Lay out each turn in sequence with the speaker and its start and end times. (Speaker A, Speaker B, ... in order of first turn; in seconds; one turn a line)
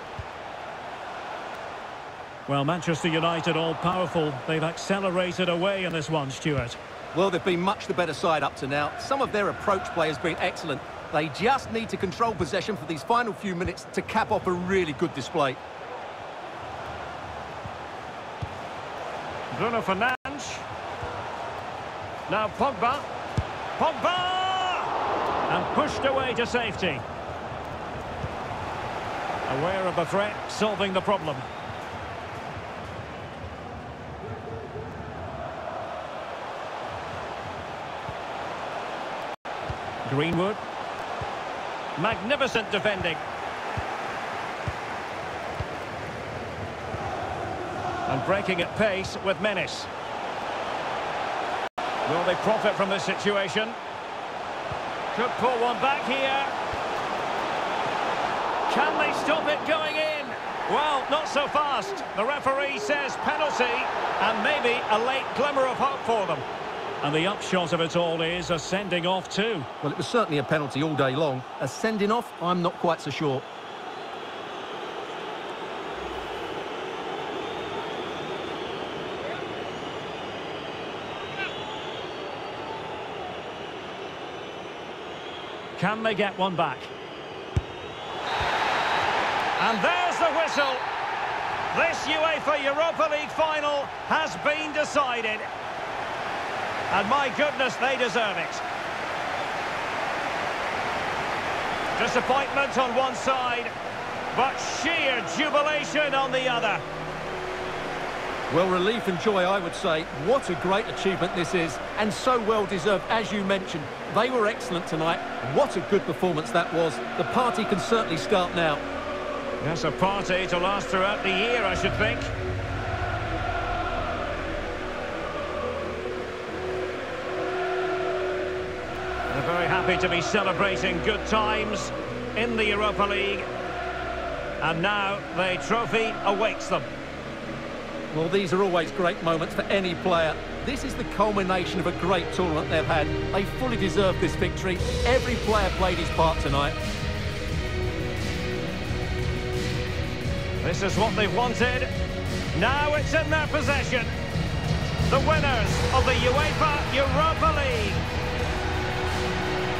Speaker A: 2.5-6.8
Speaker B: 7.1-15.6
Speaker A: 19.5-20.6
Speaker A: 22.3-23.1
Speaker A: 23.8-24.9
Speaker A: 25.5-27.0
Speaker A: 29.5-31.5
Speaker A: 40.0-40.6
Speaker A: 42.0-43.2
Speaker A: 48.1-49.9
Speaker A: 52.1-53.8
Speaker A: 55.1-56.5
Speaker A: 58.7-66.5
Speaker A: 67.0-69.7
Speaker B: 69.8-73.5
Speaker A: 85.8-86.9
Speaker A: 89.6-90.8
Speaker A: 91.7-95.5
Speaker A: 96.9-98.6
Speaker A: 102.0-103.7
Speaker A: 104.3-106.8
Speaker B: 108.5-118.8
Speaker A: 119.6-122.3
Speaker A: 129.3-133.5
Speaker A: 134.6-136.9
Speaker B: 138.1-146.8
Speaker A: 150.6-151.9
Speaker A: 152.5-154.1
Speaker A: 155.1-158.0